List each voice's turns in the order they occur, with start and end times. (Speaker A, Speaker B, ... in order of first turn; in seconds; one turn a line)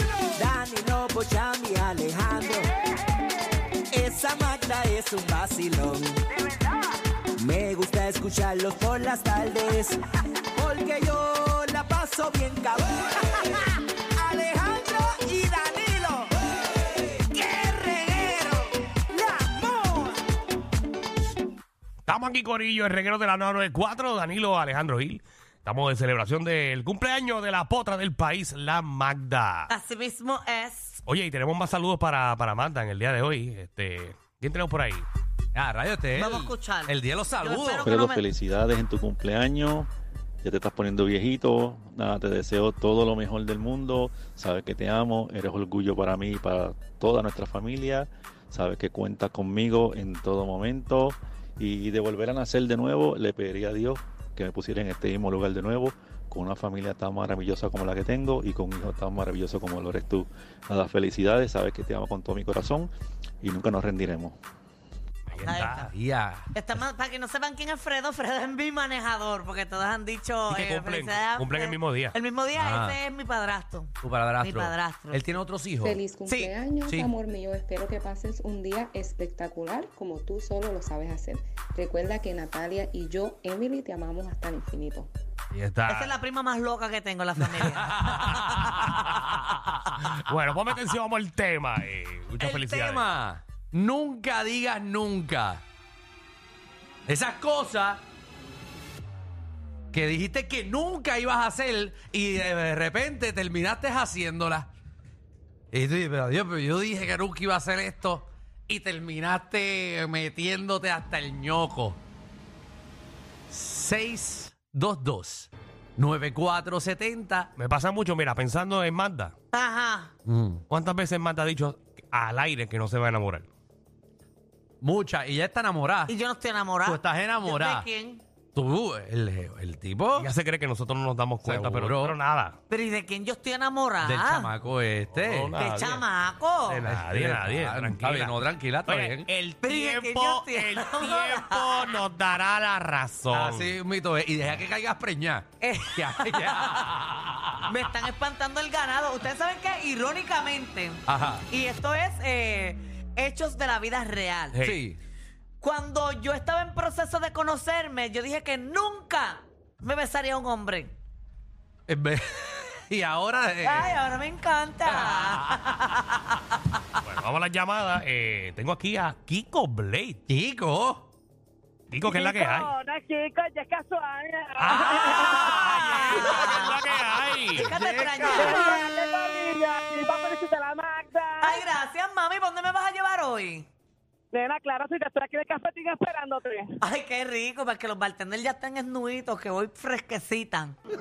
Speaker A: 0.4-2.6
Speaker A: 3.9-6.2
Speaker A: 7.4-10.0
Speaker A: 10.5-13.6
Speaker A: 14.2-16.3
Speaker A: 17.3-20.1
Speaker B: 22.1-29.7
Speaker C: 29.7-31.0
Speaker B: 31.1-35.1
Speaker D: 35.5-37.9
Speaker C: 36.1-38.2
Speaker E: 37.8-39.9
Speaker E: 40.4-64.4
Speaker B: 65.3-65.9
Speaker C: 65.4-65.9
Speaker D: 65.9-66.5
Speaker C: 66.5-75.3
Speaker B: 70.5-72.2
Speaker D: 72.5-73.0
Speaker D: 74.0-76.0
Speaker F: 75.8-85.1
Speaker C: 76.2-76.5
Speaker D: 76.8-77.1
Speaker B: 85.5-86.2
Speaker C: 85.9-88.9
Speaker D: 87.5-89.2
Speaker B: 90.2-93.1
Speaker D: 92.4-95.6
Speaker D: 97.1-98.0
Speaker D: 99.9-104.7
Speaker D: 105.7-112.0
Speaker D: 113.5-117.5
Speaker B: 117.6-119.3
Speaker C: 119.5-120.1
Speaker D: 120.2-120.6
Speaker B: 120.7-123.5
Speaker D: 124.8-126.1
Speaker C: 126.1-128.2
Speaker D: 126.8-127.9
Speaker D: 128.5-130.3
Speaker B: 130.2-132.6
Speaker D: 131.4-132.2
Speaker C: 132.7-134.5
Speaker D: 134.0-135.5
Speaker B: 135.1-136.1
Speaker C: 135.6-136.8
Speaker B: 136.7-143.8
Speaker D: 136.9-139.3
Speaker C: 139.6-141.9
Speaker D: 143.3-147.8
Speaker C: 145.6-146.7
Speaker C: 147.7-154.6
Speaker D: 151.1-151.4
Speaker B: 154.5-154.8
Speaker D: 154.6-155.0
Speaker C: 155.6-160.9
Speaker D: 161.9-164.1
Speaker C: 163.6-166.3
Speaker D: 164.8-165.8
Speaker B: 167.0-170.2
Speaker D: 170.3-171.1
Speaker B: 171.9-172.7
Speaker G: 172.1-175.6
Speaker B: 174.6-177.8
Speaker C: 174.8-176.8
Speaker C: 177.5-178.9
Speaker G: 177.8-181.7
Speaker C: 181.4-183.7
Speaker G: 184.3-186.7
Speaker C: 186.8-190.8